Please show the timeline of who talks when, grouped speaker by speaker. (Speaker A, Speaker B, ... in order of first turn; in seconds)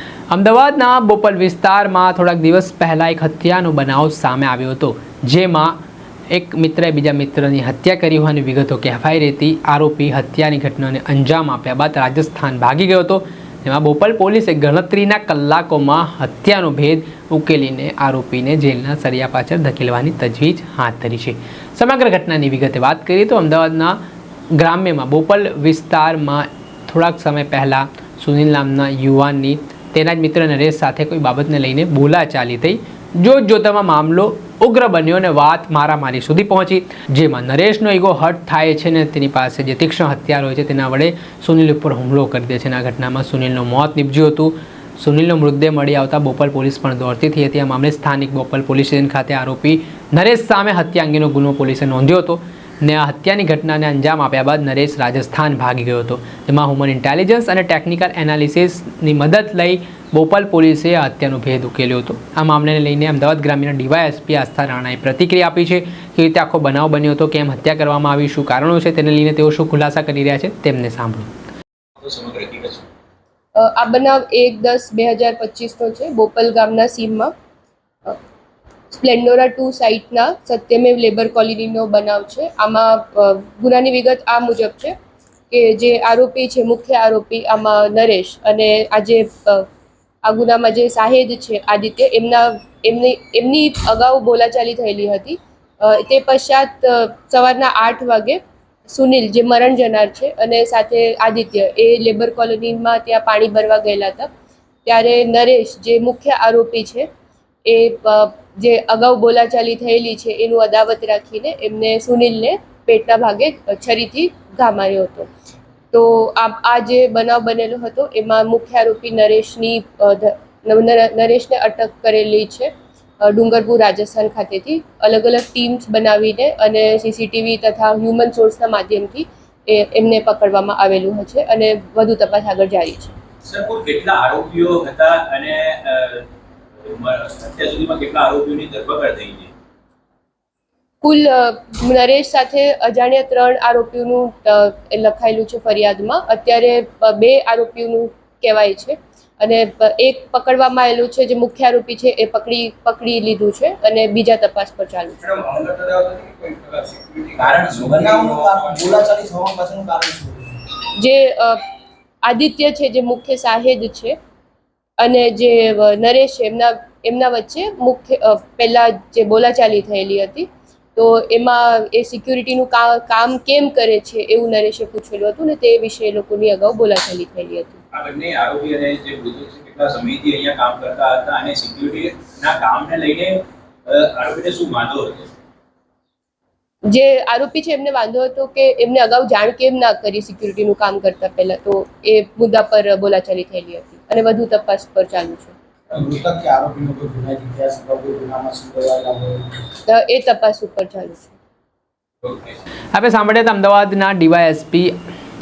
Speaker A: 0.3-5.8, 6.3-24.0, 24.5-71.3, 202.9-204.9
Speaker B: 72.0-72.8, 133.4-136.2, 136.8-139.5, 157.4-159.0, 177.9-185.3
Speaker C: 73.5-77.3, 78.9-84.9, 85.5-89.7, 90.2-104.3, 104.8-107.1, 107.7-115.3, 115.9-122.7, 123.2-133.1, 141.0-155.4, 160.9-161.6, 162.2-164.2, 165.0-177.8, 186.9-195.5, 199.9-201.3
Speaker D: 156.2-160.6, 195.9-199.5